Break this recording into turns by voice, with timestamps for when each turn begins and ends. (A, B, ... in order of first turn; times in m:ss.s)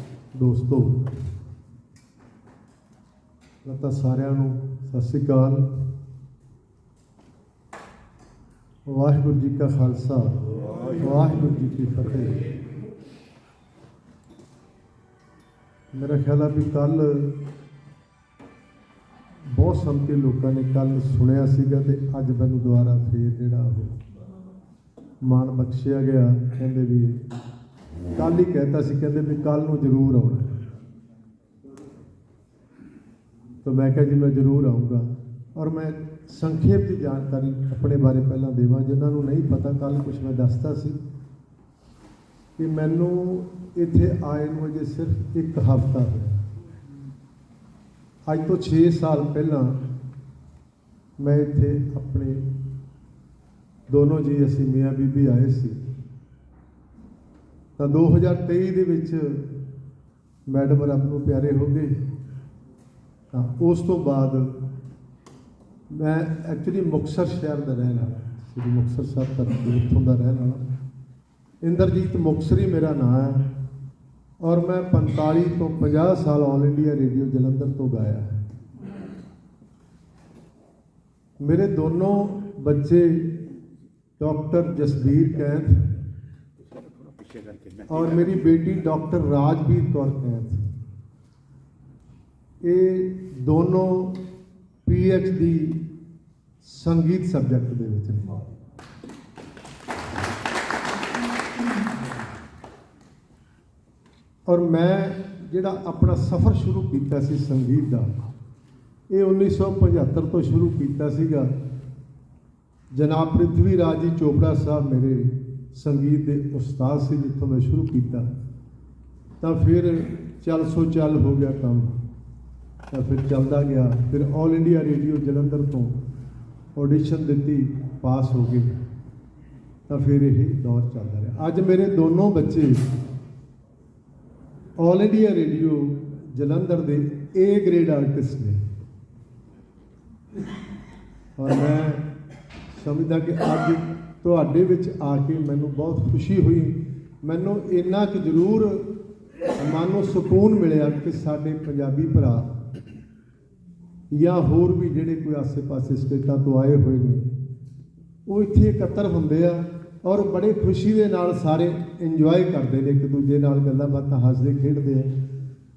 0:00.3-0:01.1 A
0:03.6-0:05.7 A
0:08.9-0:10.4 A
0:10.9-0:12.4 A
0:15.9-0:17.4 A
0:19.5-0:24.0 A
0:25.2-0:27.2 A
0:28.2-0:30.6 A
0:33.6-0:41.0 A
0:42.6-0:46.4 A
0:48.3-0:49.8 A
0:51.2-0:52.5 A
0:53.9-0:55.8 A
0:57.8-0:59.6 A
1:00.5-1:02.0 A
1:03.3-1:04.6 A
1:05.9-1:10.6 A
1:11.6-1:13.5 A
1:14.4-1:18.4 A
1:21.4-1:23.3 A
1:24.2-1:25.9 A
1:27.9-1:30.6 A
1:32.6-1:34.2 A
1:34.8-1:35.8 A
1:36.6-1:38.4 A
1:44.5-1:48.1 A
1:49.1-1:51.5 A
1:52.9-1:58.3 A
1:59.4-2:02.0 A
2:02.9-2:06.0 A
2:06.8-2:08.8 A
2:09.9-2:12.9 A
2:14.8-2:18.6 A
2:21.4-2:22.0 A
2:22.7-2:28.9 A
2:29.6-2:32.5 A
2:34.1-2:37.3 A
2:38.3-2:45.1 A